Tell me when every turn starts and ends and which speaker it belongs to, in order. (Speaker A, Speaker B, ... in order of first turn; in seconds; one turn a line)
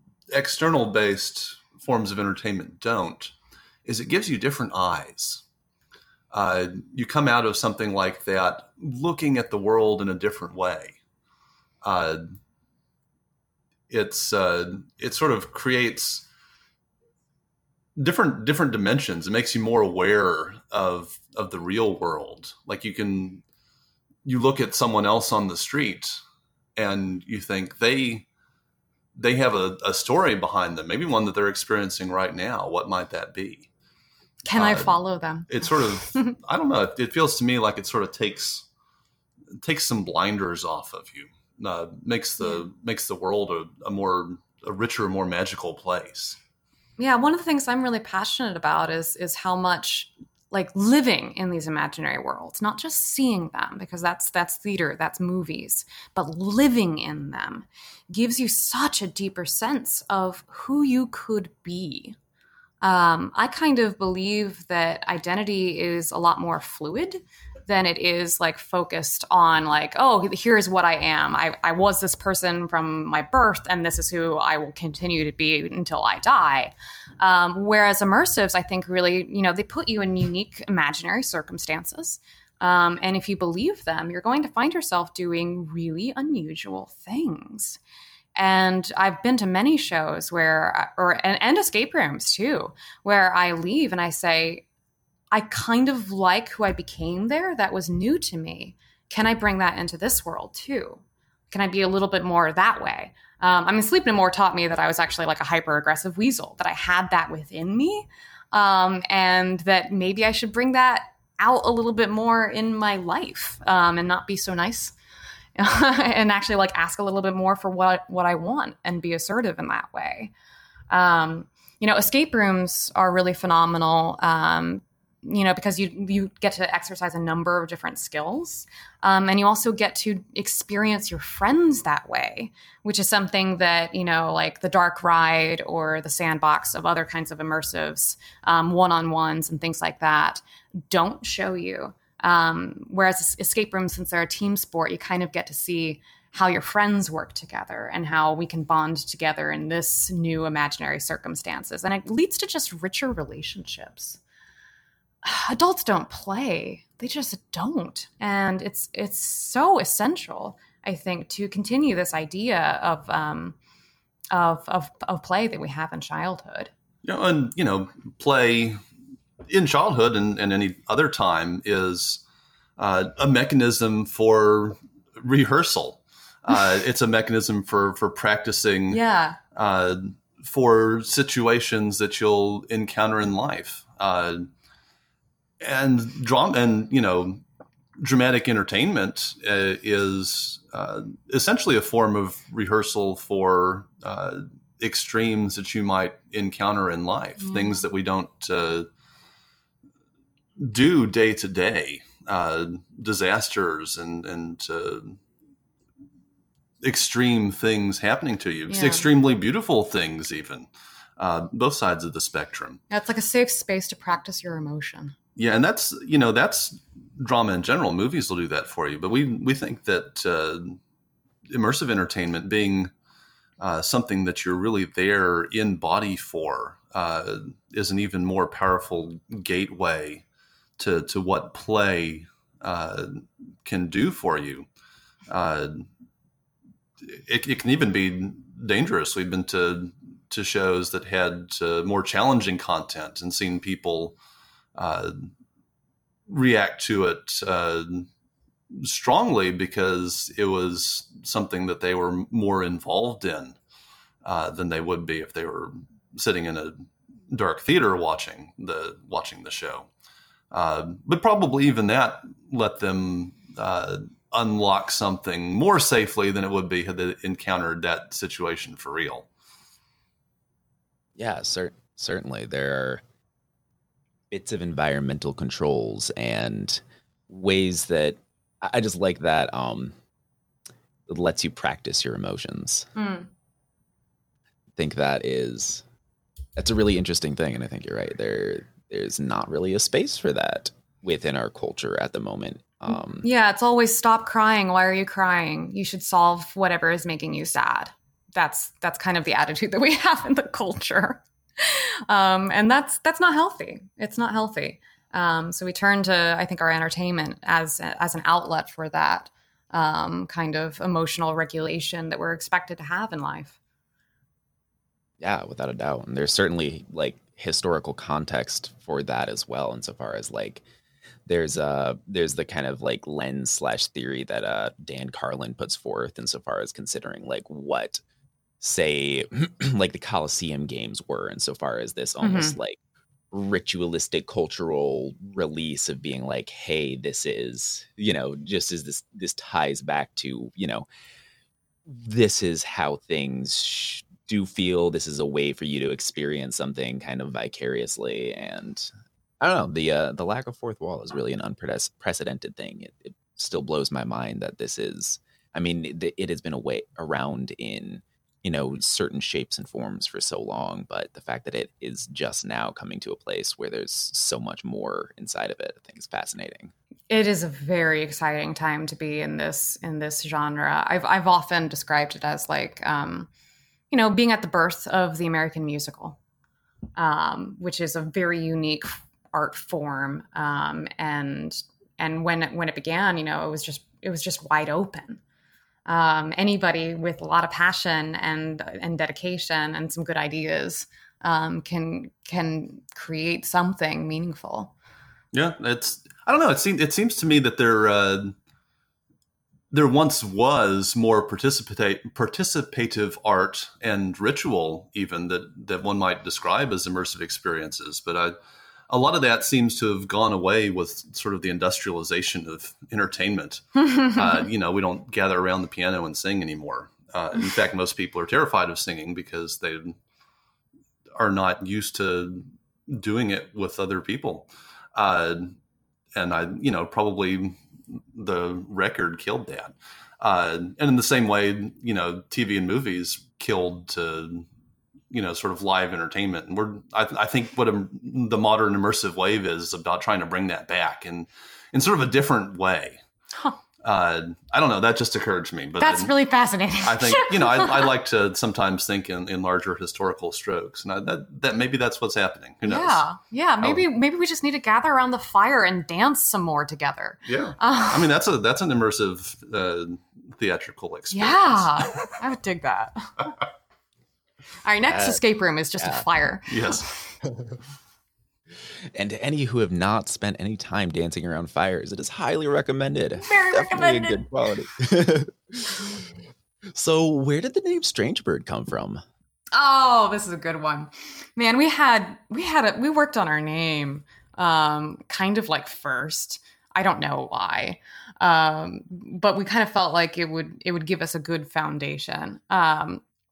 Speaker A: 0.3-3.3
Speaker A: 3.9-5.4
Speaker A: 6.3-11.0
Speaker A: 11.8-12.2
Speaker A: 13.9-16.2
Speaker A: 18.0-23.4
Speaker A: 24.2-26.2
Speaker A: 26.8-28.2
Speaker A: 29.1-33.7
Speaker B: 34.5-36.3
Speaker A: 34.5-35.0
Speaker A: 35.5-38.6
Speaker A: 39.6-46.4
Speaker B: 42.4-42.6
Speaker B: 47.0-62.1
Speaker B: 62.8-87.8
Speaker B: 88.3-94.6
Speaker B: 95.3-114.9
Speaker B: 115.5-120.3
Speaker B: 120.9-154.2
Speaker B: 155.2-163.6
Speaker B: 164.3-166.7
Speaker A: 167.0-168.8
Speaker A: 169.5-172.2
Speaker A: 172.8-179.0
Speaker B: 178.9-179.4
Speaker A: 179.5-184.5
Speaker A: 185.6-187.4
Speaker A: 188.0-198.9
Speaker B: 197.4-197.8
Speaker A: 200.6-205.2
Speaker A: 206.8-212.8
Speaker B: 208.7-209.1
Speaker B: 212.9-215.1
Speaker A: 215.3-220.8
Speaker A: 221.5-222.9
Speaker A: 223.6-230.2
Speaker A: 230.8-234.7
Speaker A: 235.3-235.9
Speaker A: 237.0-244.2
Speaker A: 244.7-245.3
Speaker A: 246.3-248.1
Speaker A: 248.7-253.6
Speaker A: 254.2-259.9
Speaker A: 260.5-269.3
Speaker C: 271.2-273.0
Speaker C: 274.3-279.9
Speaker C: 281.1-282.9
Speaker B: 282.9-283.3
Speaker C: 284.8-285.8
Speaker C: 286.6-293.3
Speaker B: 293.2-313.6
Speaker C: 315.2-320.6
Speaker C: 321.2-328.0
Speaker C: 328.6-332.8
Speaker B: 332.2-332.6
Speaker C: 333.3-340.9
Speaker C: 341.9-366.7
Speaker B: 367.1-373.3
Speaker B: 373.9-376.2
Speaker B: 377.0-385.2
Speaker B: 385.9-394.7
Speaker A: 395.3-398.3
Speaker A: 399.7-408.3
Speaker A: 408.9-420.0
Speaker A: 421.1-425.6
Speaker A: 426.1-434.4
Speaker A: 435.1-443.0
Speaker A: 443.8-446.1
Speaker B: 445.8-447.9
Speaker A: 446.8-453.0
Speaker B: 452.6-458.1
Speaker A: 457.2-462.0
Speaker B: 461.1-463.3
Speaker B: 464.6-467.2
Speaker C: 464.9-465.2
Speaker C: 465.8-466.1
Speaker A: 466.5-466.9
Speaker C: 468.9-475.7
Speaker B: 473.2-474.2
Speaker C: 476.7-479.0
Speaker B: 479.5-493.0